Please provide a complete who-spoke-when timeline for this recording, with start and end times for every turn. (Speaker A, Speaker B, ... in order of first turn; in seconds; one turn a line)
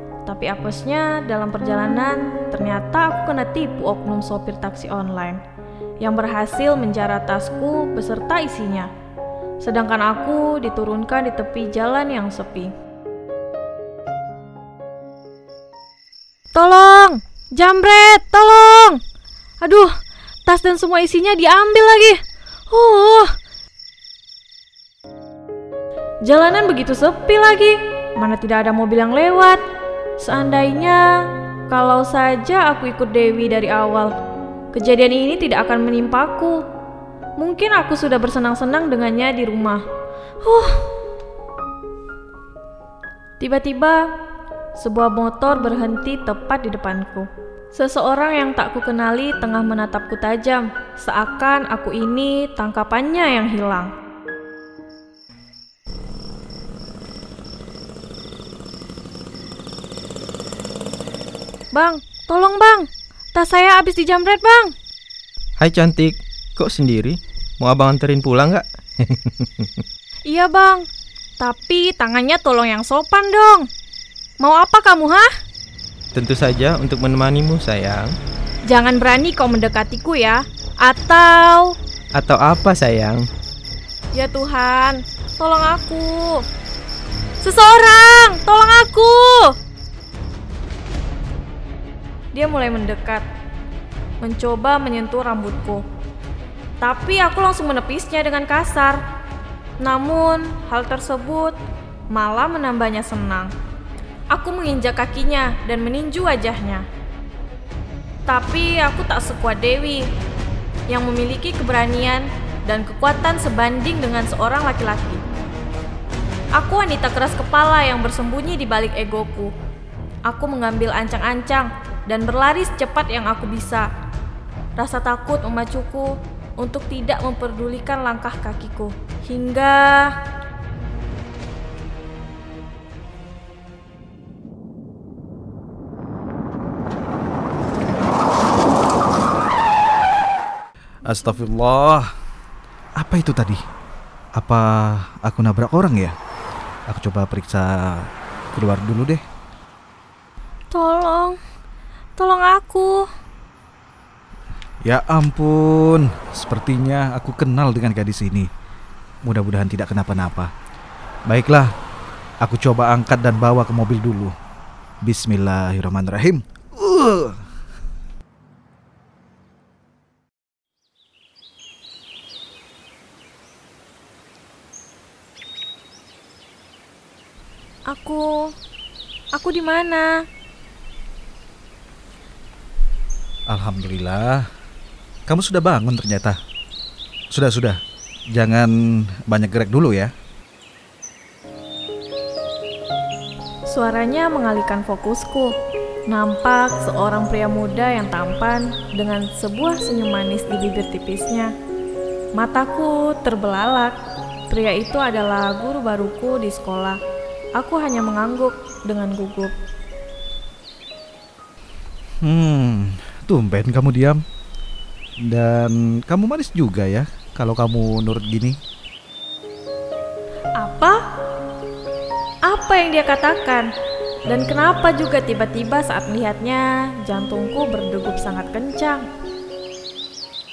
Speaker A: 0.2-5.4
Speaker A: 6.0-8.9
Speaker A: 9.6-12.7
Speaker A: 16.5-19.0
Speaker A: 19.6-19.9
Speaker A: 20.4-22.2
Speaker A: 22.7-23.3
Speaker A: 26.2-29.6
Speaker A: 30.2-34.1
Speaker A: 34.7-36.6
Speaker A: 37.4-39.8
Speaker A: 40.4-40.9
Speaker A: 43.4-44.0
Speaker A: 44.8-53.9
Speaker A: 61.7-64.7
Speaker B: 65.6-69.7
Speaker A: 70.3-70.8
Speaker A: 71.4-73.7
Speaker A: 74.4-75.3
Speaker B: 76.1-78.1
Speaker A: 78.7-81.7
Speaker B: 82.1-83.3
Speaker A: 84.1-86.4
Speaker A: 87.4-89.5
Speaker A: 92.3-93.2
Speaker A: 94.2-95.8
Speaker A: 96.8-99.0
Speaker A: 99.8-101.6
Speaker A: 102.1-103.5
Speaker A: 104.3-106.8
Speaker A: 108.3-110.1
Speaker A: 110.9-115.2
Speaker A: 116.5-119.5
Speaker A: 120.3-123.9
Speaker A: 124.8-130.1
Speaker C: 141.1-142.1
Speaker C: 143.0-143.6
Speaker C: 144.3-146.1
Speaker C: 146.9-149.2
Speaker A: 150.7-151.4
Speaker A: 152.2-153.1
Speaker C: 154.8-158.5
Speaker C: 159.2-160.5
Speaker C: 161.3-161.7
Speaker C: 162.4-164.3
Speaker C: 165.0-167.4
Speaker A: 177.9-178.5
Speaker A: 179.3-180.2
Speaker C: 183.5-184.5
Speaker C: 185.3-186.4
Speaker C: 187.3-187.8
Speaker C: 188.3-190.1
Speaker A: 193.7-195.5
Speaker A: 196.1-201.5
Speaker A: 202.3-203.9
Speaker A: 204.5-207.0
Speaker A: 207.6-209.5
Speaker C: 212.2-214.2
Speaker C: 215.2-218.6
Speaker A: 220.6-221.0
Speaker A: 222.5-223.7
Speaker A: 224.2-229.1